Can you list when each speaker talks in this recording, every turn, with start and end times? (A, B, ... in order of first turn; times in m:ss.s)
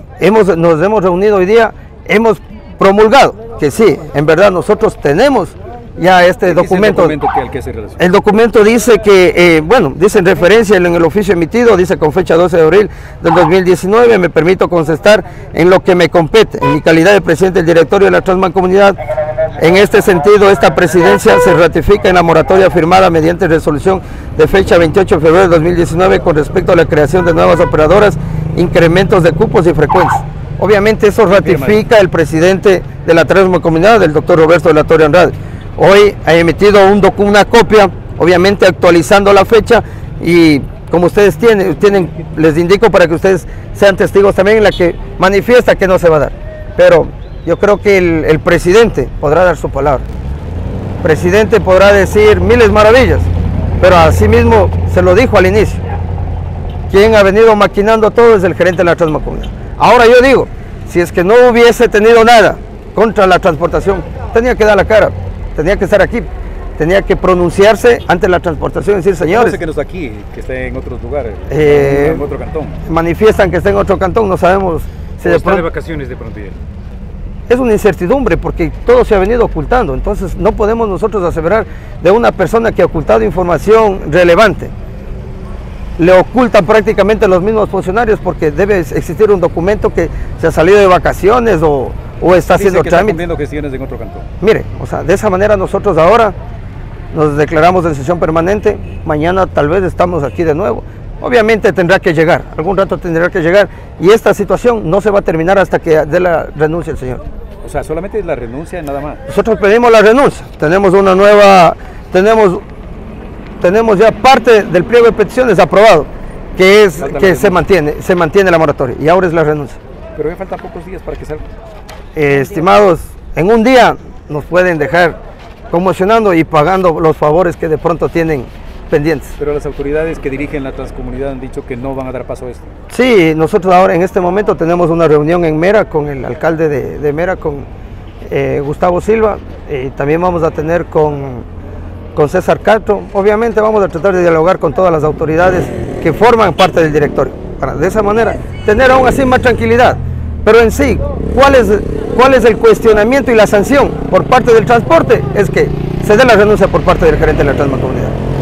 0:00.2-0:07.2 A
0:06.5-0:08.0 B
0:08.0-0:19.0 A
0:19.6-0:50.0 A
0:31.3-0:31.8 B
0:51.0-0:53.3 A
0:53.8-0:55.8 A
0:56.9-1:09.6 A
1:09.2-1:12.8 B
1:11.5-1:12.2 A
1:12.8-1:15.6 A
1:15.2-1:16.6 B
1:17.5-1:24.7 A
1:26.0-1:33.2 A
1:32.5-1:34.2 B
1:34.4-1:36.4 A
1:37.1-1:47.2 A
1:47.6-1:49.2 B
1:49.3-1:52.6 A
1:53.6-1:59.8 A
1:57.0-1:57.6 B
2:00.1-2:01.5 B
2:02.2-2:05.2 A
2:05.7-2:09.4 A
2:09.4-2:12.7 B
2:12.9-2:17.6 A
2:18.2-2:21.4 A
2:22.1-2:38.1 A